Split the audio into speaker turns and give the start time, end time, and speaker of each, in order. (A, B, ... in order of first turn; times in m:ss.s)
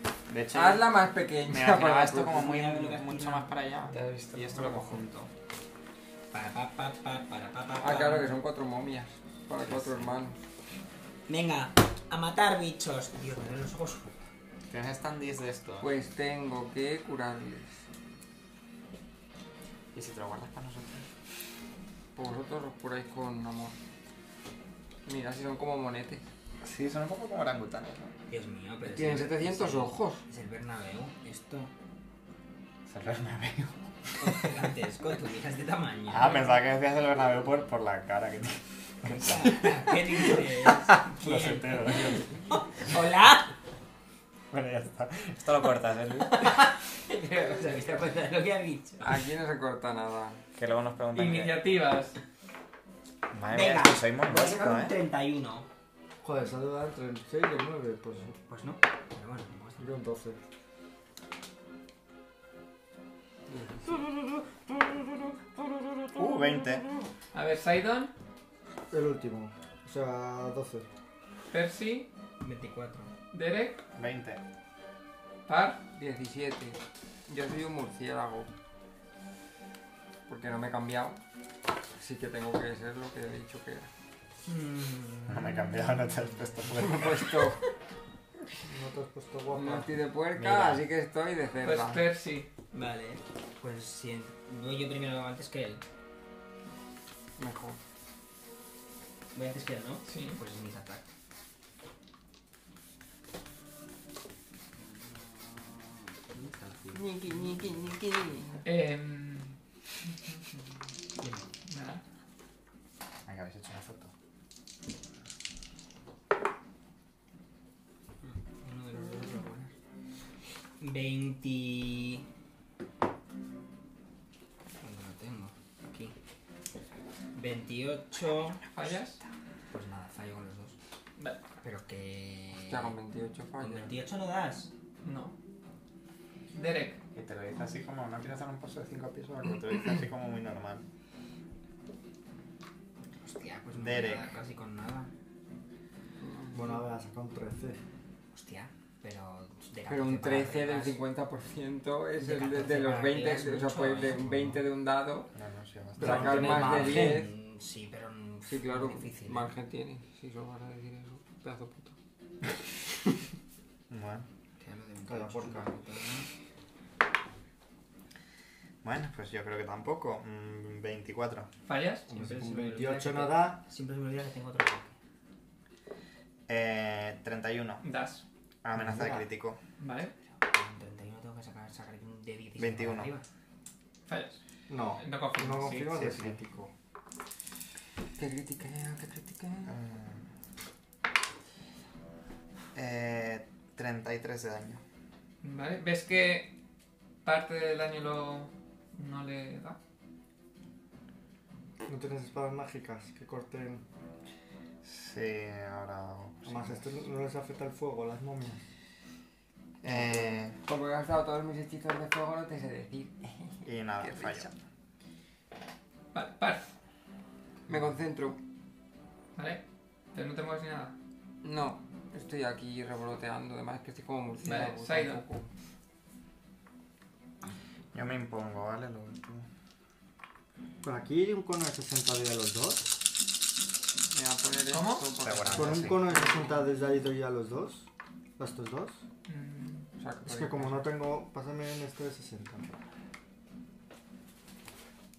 0:00.3-0:00.9 A
0:00.5-0:02.5 B
0:01.5-0:05.3 A
0:02.4-0:03.5 C
0:04.0-0:05.0 B
0:06.3-0:08.4 C
0:07.8-0:10.4 B
0:09.6-0:10.0 A
0:11.3-0:14.2 C
0:14.7-0:15.9 A
0:15.8-0:17.8 B
0:19.9-0:21.1 A
0:22.2-0:23.8 B
0:25.1-0:26.2 B
0:26.6-0:28.1 A
0:28.3-0:31.7 C
0:28.9-0:30.2 B
0:32.9-0:34.6 A
0:34.2-0:36.4 C
0:36.1-0:42.4 A
0:39.2-0:43.5 C
0:44.5-0:46.3 A
0:46.2-0:49.2 C
0:49.0-0:50.4 B
0:50.5-0:51.6 A
0:51.1-0:52.2 D
0:53.3-0:54.9 A
0:53.5-0:55.7 C
0:56.2-0:58.3 E
0:58.5-1:00.0 C
0:59.8-1:00.4 E
1:03.5-1:04.1 B
1:06.2-1:06.9 A
1:07.3-1:08.1 D
1:08.9-1:10.9 E
1:11.5-1:12.1 D
1:12.4-1:13.1 C
1:13.3-1:13.8 D
1:14.0-1:14.4 A
1:15.5-1:15.9 D
1:15.9-1:18.5 B
1:20.3-1:21.2 B
1:22.0-1:23.9 B
1:24.5-1:25.5 C
1:25.3-1:27.3 A
1:26.7-1:27.6 B
1:28.6-1:29.9 E
1:29.5-1:32.0 B
1:30.4-1:30.8 A
1:31.6-1:32.5 D
1:32.7-1:35.8 C
1:37.4-1:37.8 B
1:39.3-1:41.1 C
1:40.0-1:40.4 D
1:44.8-1:47.9 C
1:46.9-1:48.6 B
1:48.6-1:49.6 D
1:51.7-1:52.0 D
1:53.3-1:54.1 A
1:58.2-1:59.7 C
2:00.8-2:02.3 C
2:04.8-2:06.1 C
2:07.4-2:08.6 C
2:08.6-2:09.2 D
2:09.7-2:10.8 C
2:11.6-2:13.0 C
2:12.7-2:14.0 B
2:13.6-2:14.7 C
2:15.0-2:15.4 D
2:16.5-2:17.0 D
2:17.1-2:20.8 A
2:23.1-2:25.1 C
2:23.7-2:24.3 A
2:26.2-2:26.8 B
2:26.5-2:27.8 E
2:28.3-2:31.0 C
2:29.9-2:35.3 B
2:32.2-2:34.6 C
2:35.4-2:36.8 A
2:36.0-2:37.3 B
2:36.0-2:39.5 C
2:36.0-2:37.2 E
2:38.5-2:42.0 B
2:43.9-2:44.3 A
2:44.6-2:46.3 C
2:45.1-2:45.7 E
2:48.8-2:51.5 A
2:51.7-2:52.1 D
2:52.1-2:55.0 C
2:52.2-2:53.6 E
2:56.5-2:57.8 A
2:57.8-2:58.2 D
2:58.6-2:59.6 A
2:58.7-2:59.3 E
2:59.8-3:00.1 D
3:00.4-3:03.2 C
3:02.6-3:03.1 A
3:04.1-3:04.4 D
3:04.7-3:06.7 E
3:05.0-3:06.0 D
3:05.9-3:06.4 A
3:08.2-3:09.8 B
3:09.7-3:10.2 A
3:12.8-3:14.8 A
3:15.4-3:16.6 D
3:17.2-3:19.8 D
3:21.9-3:23.8 E
3:24.8-3:26.8 A
3:26.4-3:28.6 E
3:29.8-3:30.6 A
3:29.9-3:34.5 B
3:33.6-3:34.5 A
3:36.1-3:36.7 D
3:37.7-3:38.4 B
3:39.4-3:39.6 D
3:40.1-3:41.0 D
3:41.4-3:45.5 B
3:44.4-3:45.2 D
3:47.9-3:49.5 A
3:50.8-3:52.9 E
3:54.1-3:56.7 B
3:54.7-3:55.1 D
3:55.2-3:56.1 A
3:55.5-3:57.9 E
3:58.4-3:59.0 E
3:59.3-3:59.9 D
4:00.0-4:00.9 B
4:00.3-4:02.7 E